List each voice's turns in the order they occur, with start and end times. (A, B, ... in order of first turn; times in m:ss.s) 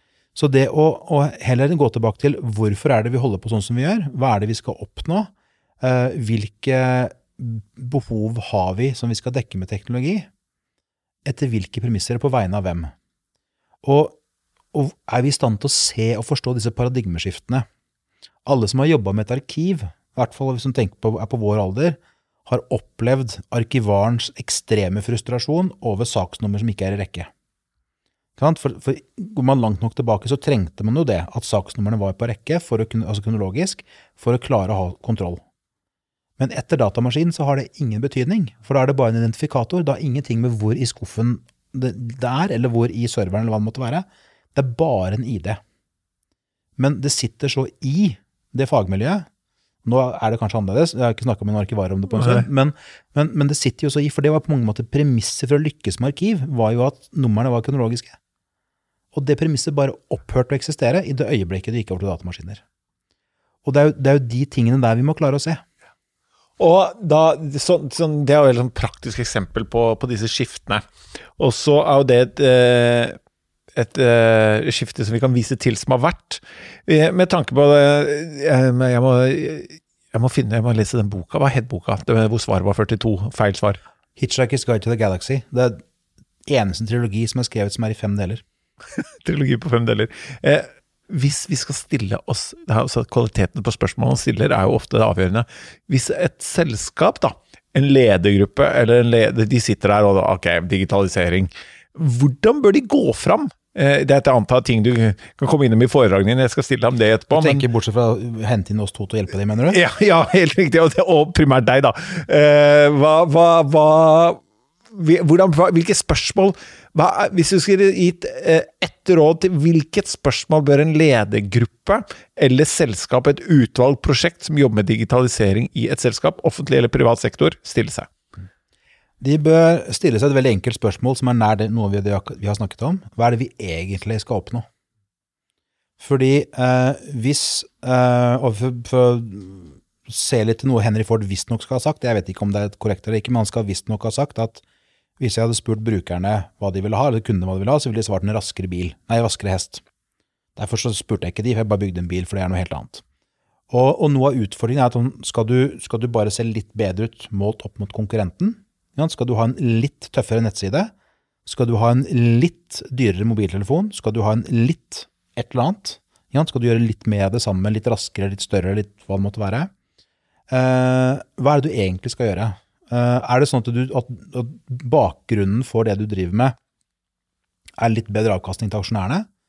0:00.3-0:10.3 A
0:11.2-0:12.9 A
0:13.8-0:14.2 A
0:14.7-0:17.6 A
0:18.4-0:27.3 A
0:28.4-0:35.4 A
0:36.4-0:45.6 A
0:46.8-0:49.3 A
0:49.8-0:58.2 A
0:52.1-0:52.5 B
0:59.1-1:02.6 A
1:03.6-1:05.6 A
1:06.6-1:13.2 B
1:13.7-1:23.8 B
1:24.2-1:25.8 A
1:26.4-1:28.4 A
1:29.0-1:47.6 B
1:47.3-1:49.8 A
1:49.7-1:54.4 B
1:54.9-2:08.1 B
2:09.2-2:14.6 A
2:16.0-2:24.6 A
2:25.2-2:29.8 A
2:30.6-2:33.0 A
2:33.7-2:40.9 A
2:41.4-2:49.7 A
2:50.5-2:56.6 A
2:57.8-2:59.2 A